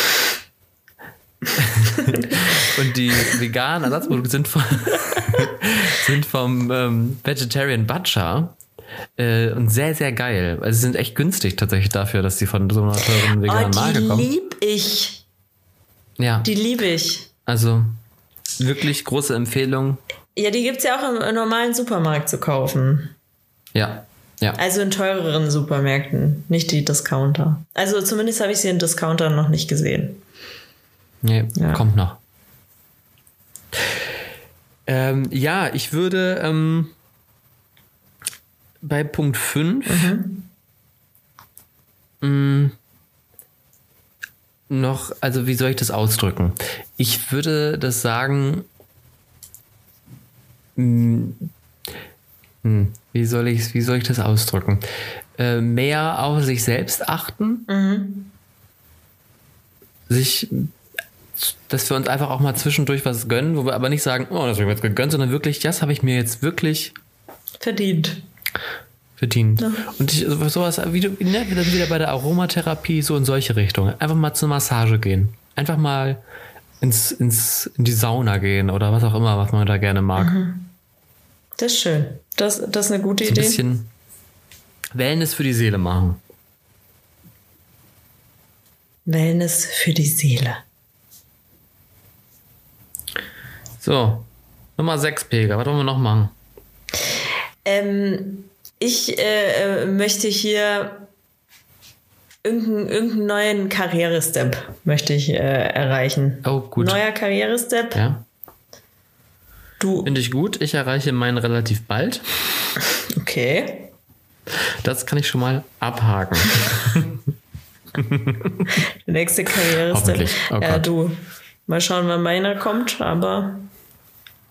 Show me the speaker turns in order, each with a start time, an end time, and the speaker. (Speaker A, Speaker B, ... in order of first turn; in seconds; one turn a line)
Speaker A: 1.5-8.6
Speaker A: 9.2-14.3
Speaker B: 13.2-15.2
Speaker A: 16.2-16.5
Speaker B: 16.4-17.3
Speaker A: 17.4-18.0
Speaker A: 18.6-20.0
Speaker B: 20.4-23.1
Speaker A: 23.7-24.6
Speaker B: 24.6-30.2
Speaker A: 31.2-32.2
Speaker B: 31.6-31.8
Speaker A: 34.9-36.9
Speaker A: 38.8-40.1
Speaker B: 39.9-40.5
Speaker A: 42.2-42.8
Speaker A: 44.7-48.7
Speaker A: 50.8-51.5
Speaker A: 52.6-54.8
Speaker A: 55.4-57.7
Speaker B: 57.7-58.3
Speaker A: 60.1-60.7
Speaker A: 61.4-66.9
Speaker B: 67.6-68.2
Speaker A: 69.2-76.2
Speaker B: 69.6-69.8
Speaker A: 76.8-80.3
Speaker B: 80.2-80.7
Speaker B: 81.6-83.6
Speaker A: 83.2-83.9
Speaker A: 84.9-86.2
Speaker B: 89.0-90.6
Speaker A: 93.8-96.3
Speaker B: 97.6-101.1
Speaker B: 102.4-108.0
Speaker A: 106.4-107.0
Speaker A: 107.9-108.2
Speaker B: 109.8-110.1
Speaker A: 110.0-112.2
Speaker B: 113.1-113.9
Speaker A: 114.8-117.2
Speaker A: 118.0-118.8
Speaker B: 119.0-123.7
Speaker A: 119.9-120.9